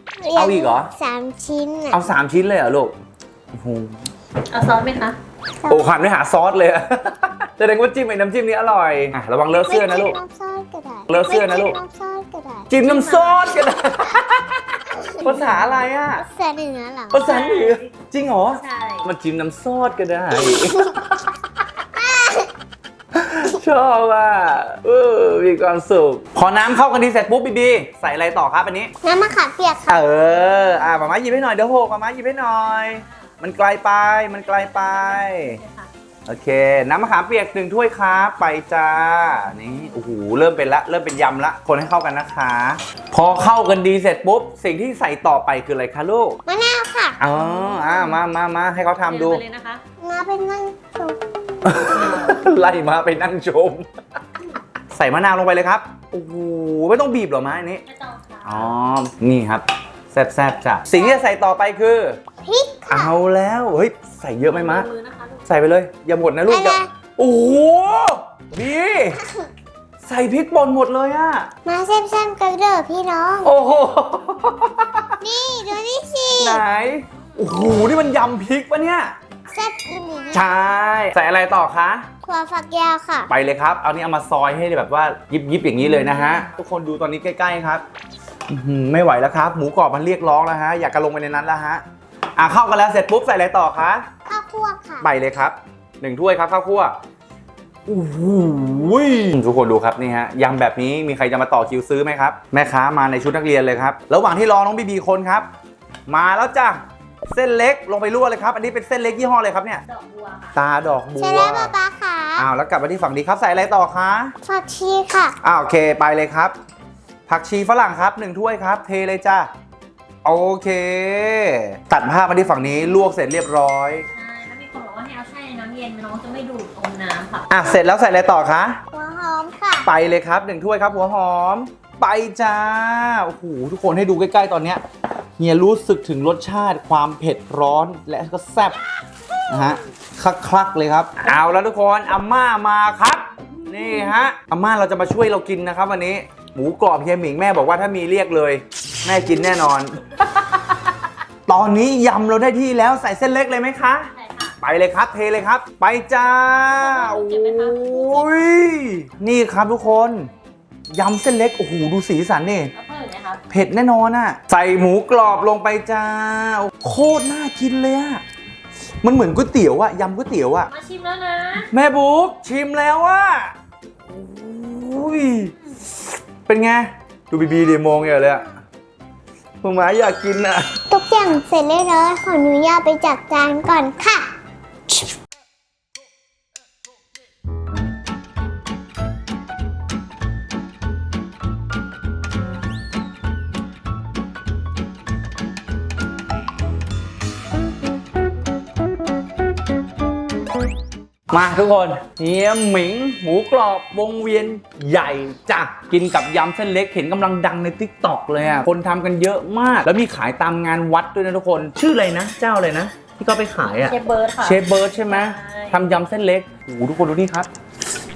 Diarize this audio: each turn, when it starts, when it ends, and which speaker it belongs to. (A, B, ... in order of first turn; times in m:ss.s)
0:00.2-0:02.0 A
0:00.4-0:00.9 B
0:01.9-0:02.9 B
0:03.6-0:04.1 B
0:04.5-0:05.2 C
0:05.6-0:06.0 A
0:05.7-0:10.2 B
0:09.5-0:12.7 A
0:11.1-0:11.8 B
0:12.7-0:16.2 B
0:12.8-0:13.5 C
0:15.3-0:15.6 C
0:16.2-0:17.3 A
0:17.1-0:21.0 B
0:17.2-0:17.9 C
0:18.6-0:19.1 C
0:20.3-0:21.0 A
0:21.9-0:22.5 A
0:23.2-0:28.9 B
0:29.0-0:30.1 A
0:29.9-0:35.6 B
0:32.9-0:33.3 C
0:34.3-0:35.9 C
0:36.3-0:46.4 B
0:46.5-0:47.2 A
0:47.2-0:49.4 B
0:47.4-0:48.1 C
0:49.1-0:49.8 C
0:50.0-0:52.0 A
0:51.6-0:53.9 B
0:52.0-0:52.4 C
0:54.9-0:57.8 B
0:57.9-0:58.7 C
0:58.4-1:02.2 B
1:00.9-1:01.3 A
1:02.4-1:03.1 A
1:02.9-1:04.9 B
1:04.4-1:05.4 C
1:05.5-1:09.2 B
1:06.5-1:06.9 A
1:09.2-1:09.5 A
1:10.0-1:11.5 B
1:11.6-1:13.5 A
1:13.4-1:15.1 B
1:15.2-1:16.6 A
1:16.4-1:19.2 B
1:19.5-1:20.5 A
1:20.3-1:22.1 B
1:22.2-1:23.3 A
1:23.3-1:27.8 B
1:25.8-1:26.5 C
1:28.5-1:31.8 B
1:32.4-1:34.1 B
1:34.3-1:35.1 A
1:35.0-1:37.0 B
1:37.9-1:45.5 B
1:46.1-1:49.8 B
1:49.9-1:50.5 C
1:50.6-1:51.7 B
1:51.2-1:52.5 A
1:52.4-1:54.3 B
1:54.4-1:55.4 A
1:55.4-1:56.6 B
1:57.3-1:59.5 B
2:00.2-2:04.1 B
2:04.2-2:07.5 C
2:07.5-2:08.8 B
2:08.9-2:09.9 A
2:09.8-2:14.8 B
2:15.4-2:18.8 B
2:19.5-2:30.0 B
2:31.5-2:34.1 B
2:34.2-2:34.6 C
2:34.6-2:40.3 B
2:36.6-2:38.3 C
2:40.9-2:42.7 B
2:42.8-2:43.4 C
2:43.5-2:48.2 B
2:49.0-2:50.7 B
2:50.7-2:51.7 C
2:51.7-2:53.5 B
2:54.1-2:58.5 B
2:59.6-3:00.8 B
3:00.9-3:04.3 A
3:21.3-3:37.5 B
3:33.8-3:35.8 C